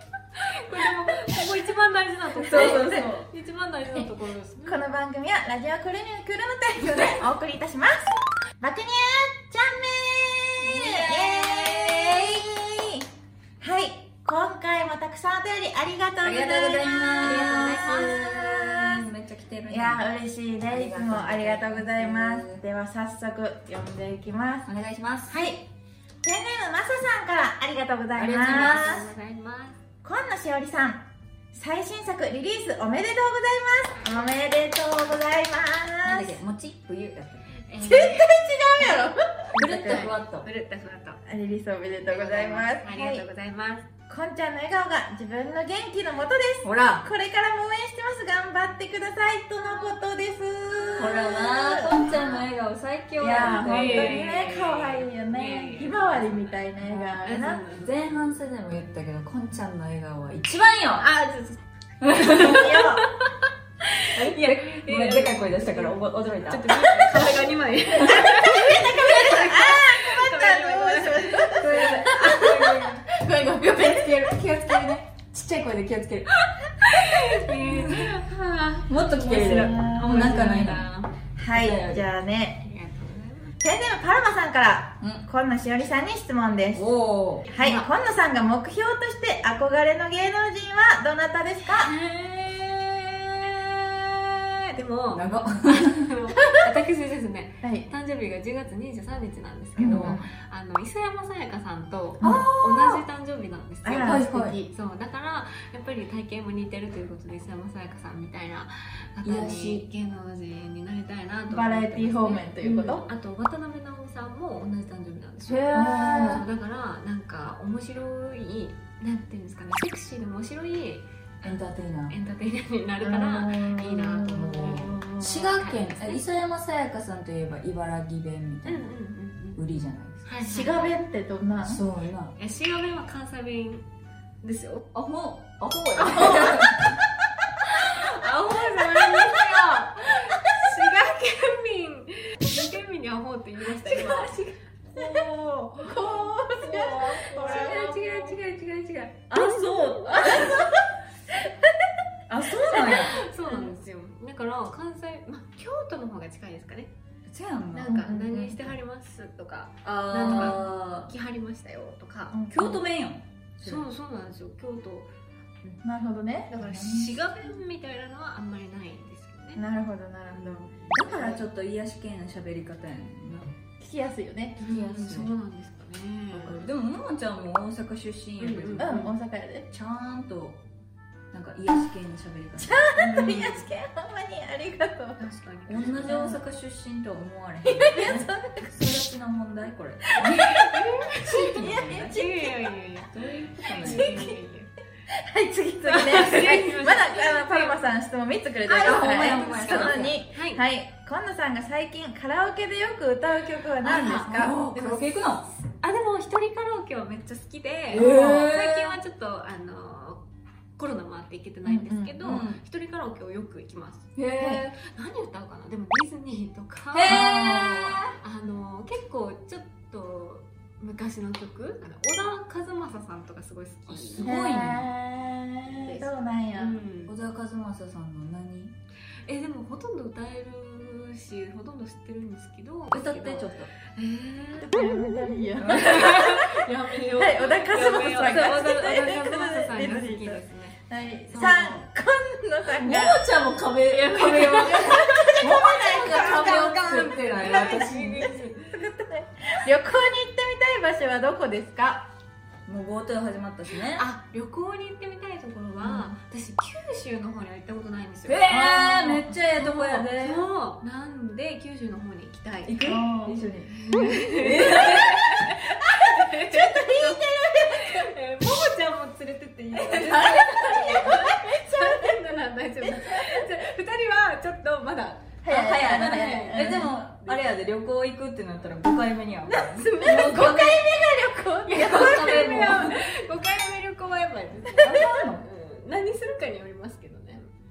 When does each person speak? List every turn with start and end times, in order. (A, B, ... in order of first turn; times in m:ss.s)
0:00.5-0:04.8 A
0:02.4-0:03.3 B
0:02.5-0:02.9 C
0:03.9-0:13.0 C
0:10.6-0:12.4 B
0:13.6-0:19.0 C
0:16.2-0:20.1 B
0:17.2-0:18.3 A
0:19.7-0:24.7 C
0:20.7-0:22.6 B
0:24.7-0:25.4 B
0:25.3-0:25.7 C
0:26.2-0:29.1 C
0:28.2-0:29.1 B
0:28.3-0:29.8 A
0:30.0-0:36.4 C
0:36.0-0:37.6 B
0:37.7-0:39.1 A
0:37.8-0:40.1 C
0:39.5-0:40.5 B
0:39.9-0:41.2 A
0:41.3-0:43.3 C
0:42.1-0:43.9 A
0:44.1-0:52.5 C
0:46.6-0:47.0 B
0:49.6-0:49.9 A
0:51.0-0:54.3 B
0:53.2-0:57.6 C
0:53.4-0:56.2 A
0:56.8-1:01.1 B
0:57.2-0:57.9 A
1:01.0-1:01.6 A
1:02.0-1:02.8 B
1:02.3-1:03.1 C
1:02.4-1:02.8 A
1:04.0-1:11.5 A
1:04.2-1:07.3 B
1:08.3-1:14.9 C
1:11.5-1:13.1 B
1:13.8-1:16.3 B
1:16.4-1:21.1 A
1:17.6-1:18.1 B
1:18.9-1:20.9 B
1:19.1-1:20.8 C
1:21.4-1:22.6 C
1:21.5-1:22.0 B
1:22.6-1:23.6 A
1:23.6-1:26.9 C
1:26.7-1:27.5 B
1:27.5-1:31.9 C
1:27.5-1:27.9 A
1:31.7-2:01.5 A
1:35.1-1:36.1 B
1:37.6-1:37.9 C
1:39.8-1:40.3 C
1:39.8-1:40.2 B
1:42.2-1:42.5 C
1:42.2-1:43.0 B
1:43.8-1:44.7 C
1:44.0-1:44.6 B
1:49.2-1:49.9 B
1:51.5-1:53.1 C
1:55.5-1:56.4 B
1:55.7-1:56.4 C
2:01.4-2:02.2 B
2:02.1-2:06.2 A
2:03.0-2:04.6 C
2:04.4-2:08.9 B
2:08.6-2:09.6 A
2:09.6-2:10.2 B
2:10.2-2:11.0 A
2:10.4-2:11.8 C
2:11.6-2:12.3 B
2:12.4-2:13.9 A
2:14.4-2:14.8 A
2:14.9-2:17.0 B
2:16.1-2:16.6 C
2:16.1-2:16.4 A
2:17.7-2:24.3 A
2:23.8-2:24.3 C
2:24.9-2:28.4 A
2:25.0-2:27.9 C
2:26.5-2:30.6 B
2:29.3-2:30.7 A
2:29.3-2:30.8 C
2:32.3-2:33.1 B
2:32.5-2:36.9 A
2:33.5-2:33.7 C
2:37.3-2:38.0 B
2:37.7-2:42.4 A
2:37.8-2:38.7 C
2:39.8-2:41.1 B
2:40.2-2:40.6 C
2:42.3-2:42.8 C
2:42.5-2:43.8 B
2:43.6-2:45.1 A
2:45.8-2:46.6 C
2:46.5-2:49.6 A
2:46.6-2:47.2 B
2:49.6-2:51.4 C
2:50.3-2:53.5 B
2:53.8-2:54.6 C
2:54.6-2:56.7 A
2:54.7-2:55.3 B
2:56.3-2:59.1 B
2:58.4-2:59.1 A
2:58.8-2:59.7 C
2:59.7-3:00.6 B
3:01.3-3:02.9 B
3:02.6-3:05.2 C
3:03.0-3:03.6 A
3:05.2-3:06.2 A
3:05.7-3:12.2 B
3:06.0-3:06.5 C
3:07.6-3:08.8 C
3:10.2-3:10.5 C
3:10.4-3:11.1 A
3:11.3-3:12.7 C
3:12.0-3:14.7 A
3:13.1-3:14.3 B
3:13.8-3:14.4 C
3:15.1-3:25.1 C
3:15.8-3:17.9 A
3:18.7-3:20.2 B
3:18.7-3:20.6 A
3:23.8-3:24.3 A
3:23.8-3:25.5 B
3:25.8-3:30.2 A
3:27.9-3:29.0 B
3:28.0-3:28.3 C
3:30.8-3:34.1 A
3:31.6-3:32.5 C
3:32.2-3:32.6 B
3:34.2-3:34.8 B
3:34.4-3:34.7 C
3:34.8-3:37.3 A
3:36.9-3:38.2 B
3:37.1-3:38.0 C
3:38.2-3:44.3 A
3:43.9-3:44.9 B
3:44.2-3:46.8 C
3:45.9-3:47.2 A
3:47.1-3:48.8 B
3:49.3-3:55.0 A
3:52.9-3:53.7 B
3:54.6-3:56.3 C
3:55.6-3:56.0 B
3:55.6-4:00.8 A
3:57.2-4:03.3 C
4:01.3-4:01.8 A
4:02.7-4:08.4 B
4:03.9-4:08.7 A
4:05.4-4:06.8 C
4:08.0-4:12.1 C
4:12.7-4:14.1 B
4:13.7-4:22.8 A
4:18.3-4:20.4 B
4:22.6-4:25.4 B
4:22.8-4:23.4 C
4:23.7-4:37.5 A
4:25.8-4:28.1 C
4:29.8-4:30.4 B
4:29.8-4:32.1 C
4:32.8-4:33.4 C
4:35.4-4:36.8 C
4:35.5-4:40.9 B
4:39.4-4:40.5 A
4:40.1-4:42.8 C
4:41.7-4:47.5 A
4:41.7-4:43.0 B
4:44.8-4:45.5 B